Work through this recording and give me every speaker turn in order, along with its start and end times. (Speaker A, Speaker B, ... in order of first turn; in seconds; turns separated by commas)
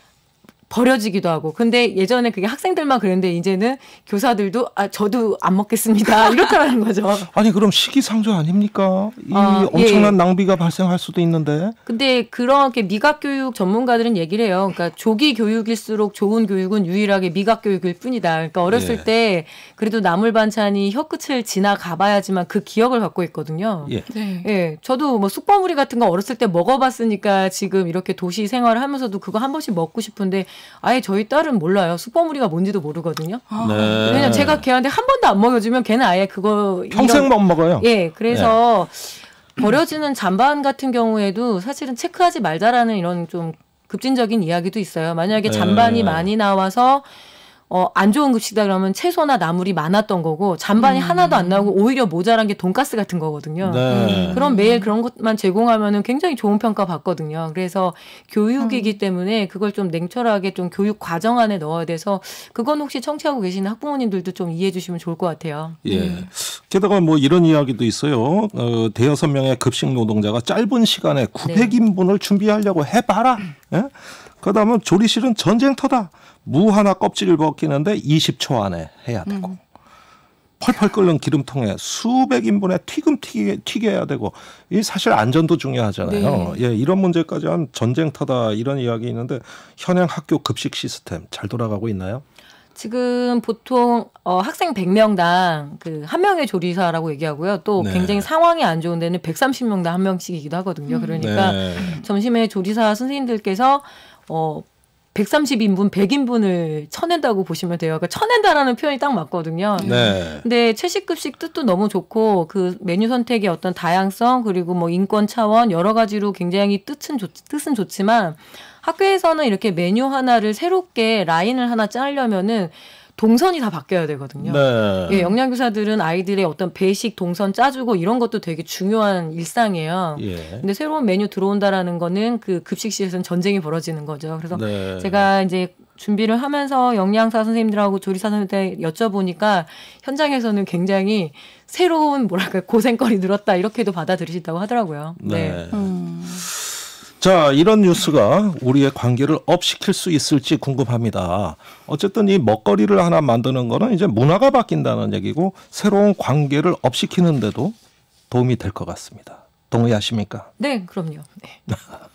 Speaker A: 0.7-7.3, Speaker B: 7.3-11.8, Speaker A: 9.3-10.2, Speaker A: 11.9-33.5, Speaker B: 18.7-19.1, Speaker C: 24.1-24.5, Speaker C: 33.5-34.5, Speaker B: 33.6-34.6, Speaker A: 34.0-47.1, Speaker B: 36.9-38.5, Speaker B: 45.4-46.3, Speaker A: 47.7-65.8, Speaker C: 50.8-51.7, Speaker B: 53.6-54.4, Speaker C: 53.9-54.9, Speaker C: 58.6-58.9, Speaker B: 65.8-79.6, Speaker C: 65.9-66.3, Speaker A: 71.4-71.8, Speaker C: 79.3-79.5, Speaker B: 80.6-92.2, Speaker C: 86.0-86.6, Speaker A: 92.8-145.6, Speaker B: 97.8-98.3, Speaker C: 100.9-101.3, Speaker B: 101.2-102.0, Speaker C: 109.8-110.2, Speaker B: 109.8-110.5, Speaker B: 124.4-125.2, Speaker C: 125.1-125.4, Speaker B: 130.2-130.7, Speaker B: 134.5-135.3, Speaker B: 145.2-145.9, Speaker C: 145.7-146.5, Speaker B: 146.4-157.8, Speaker B: 158.3-160.5, Speaker A: 160.6-161.6